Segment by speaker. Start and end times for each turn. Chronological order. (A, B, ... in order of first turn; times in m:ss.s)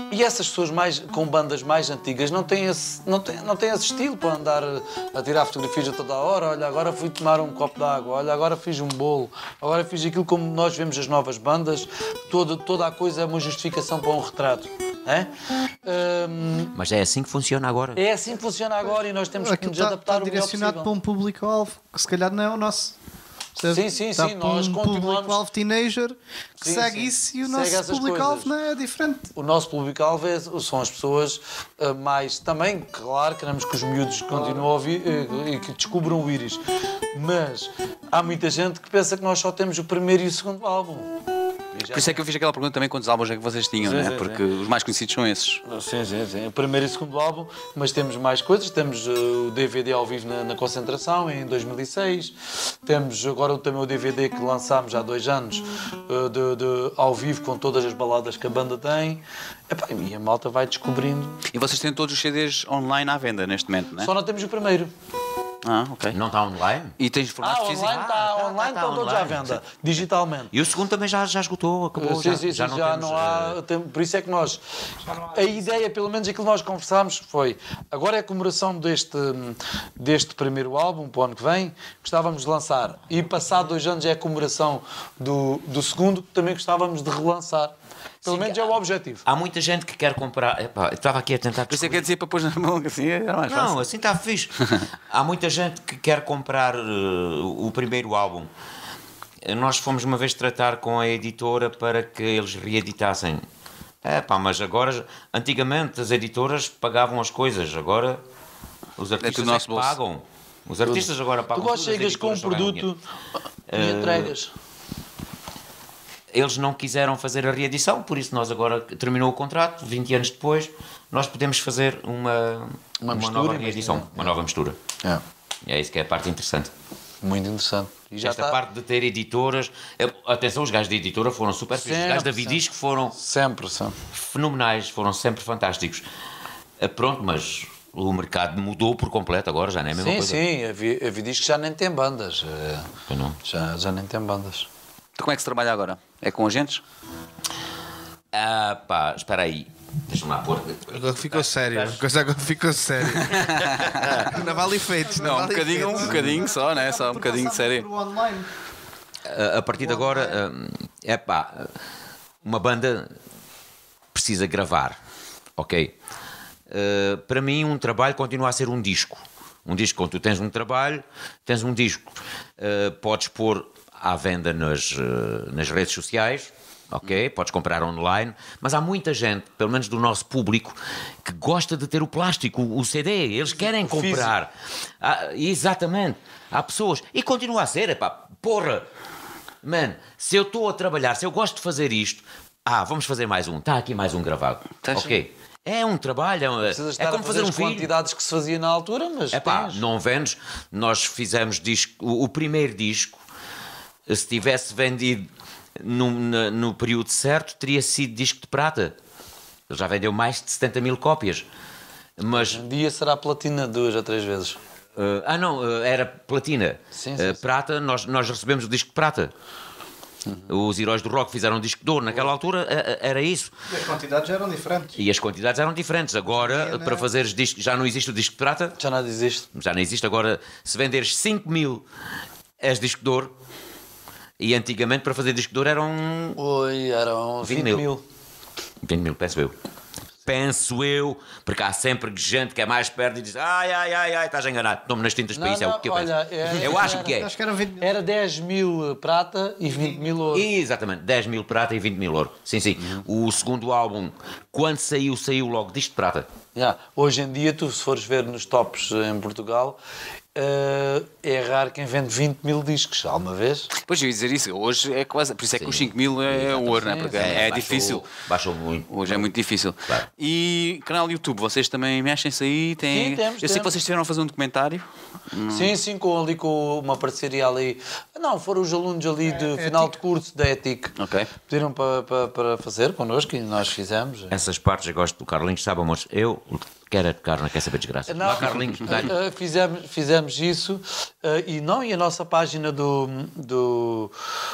0:00.1-0:15.3 A
0:15.8-0:16.7 A
0:16.7-0:18.0 B
0:17.9-0:20.9 A
0:19.4-0:22.9 C
0:23.6-0:29.2 C
0:23.6-0:25.4 A
0:26.6-0:28.5 A
0:29.3-0:36.6 A
0:37.1-0:41.1 A
0:41.7-0:42.2 A
0:41.9-0:45.6 D
0:43.8-0:44.4 A
0:45.6-1:01.4 A
1:01.5-1:04.1 D
1:04.0-1:04.9 A
1:05.6-1:06.2 D
1:06.1-1:07.0 B
1:07.0-1:08.0 D
1:07.4-1:10.5 A
1:07.8-1:09.6 B
1:10.5-1:13.6 B
1:12.0-1:29.2 A
1:28.2-1:28.7 B
1:29.2-1:32.0 B
1:31.7-1:33.8 D
1:33.5-1:34.6 B
1:35.1-1:38.5 B
1:39.4-1:43.4 B
1:44.0-1:48.2 B
1:49.0-1:52.9 B
1:49.2-1:50.0 D
1:50.8-1:53.0 A
1:53.7-1:54.3 B
1:53.7-1:54.5 A
1:56.3-2:04.8 B
2:03.0-2:04.3 A
2:05.6-2:06.7 B
2:07.2-2:08.6 A
2:08.2-2:13.1 B
2:11.8-2:12.6 A
2:13.1-2:14.0 A
2:14.1-2:16.0 B
2:16.8-2:20.4 B
2:20.0-2:22.9 A
2:23.1-2:23.4 B
2:23.4-2:24.7 A
2:25.2-2:26.8 D
2:28.3-2:32.0 B
2:30.9-2:36.5 E
2:33.3-2:34.3 D
2:33.8-2:34.2 B
2:34.4-2:38.5 C
2:35.2-2:37.8 D
2:39.2-2:41.7 B
2:39.8-2:40.4 C
2:42.4-2:43.1 B
2:44.1-2:45.0 B
2:45.6-2:45.9 B
2:46.7-3:08.8 B
3:03.5-3:04.3 A
3:09.6-3:17.9 B
3:14.8-3:15.2 D
3:16.6-3:19.8 A
3:19.3-3:23.2 B
3:24.1-3:28.9 B
3:29.7-3:31.5 B
3:32.2-3:32.6 B
3:32.3-3:34.6 A
3:34.9-3:39.3 B
3:36.9-3:37.4 A
3:40.2-3:40.5 A
3:40.5-3:43.5 B
3:43.7-3:45.0 C
3:45.0-3:48.8 B
3:46.4-3:47.0 C
3:48.8-3:49.4 A
3:49.5-3:51.8 B
3:52.6-3:53.3 B
3:54.4-3:56.4 B
3:56.4-3:58.0 A
3:57.4-3:57.9 B
3:58.8-3:59.5 B
4:00.2-4:07.3 B
4:05.3-4:07.2 A
4:07.0-4:08.0 C
4:07.8-4:10.4 A
4:10.3-4:16.3 B
4:16.5-4:19.8 A
4:20.3-4:23.7 A
4:23.7-4:28.1 D
4:25.6-4:29.3 B
4:26.6-4:27.5 A
4:28.9-4:35.7 D
4:32.9-4:33.7 A
4:35.5-4:40.9 A
4:39.3-4:39.9 C
4:41.0-4:41.3 D
4:41.4-4:44.3 A
4:44.3-4:49.1 B
4:48.1-4:54.1 A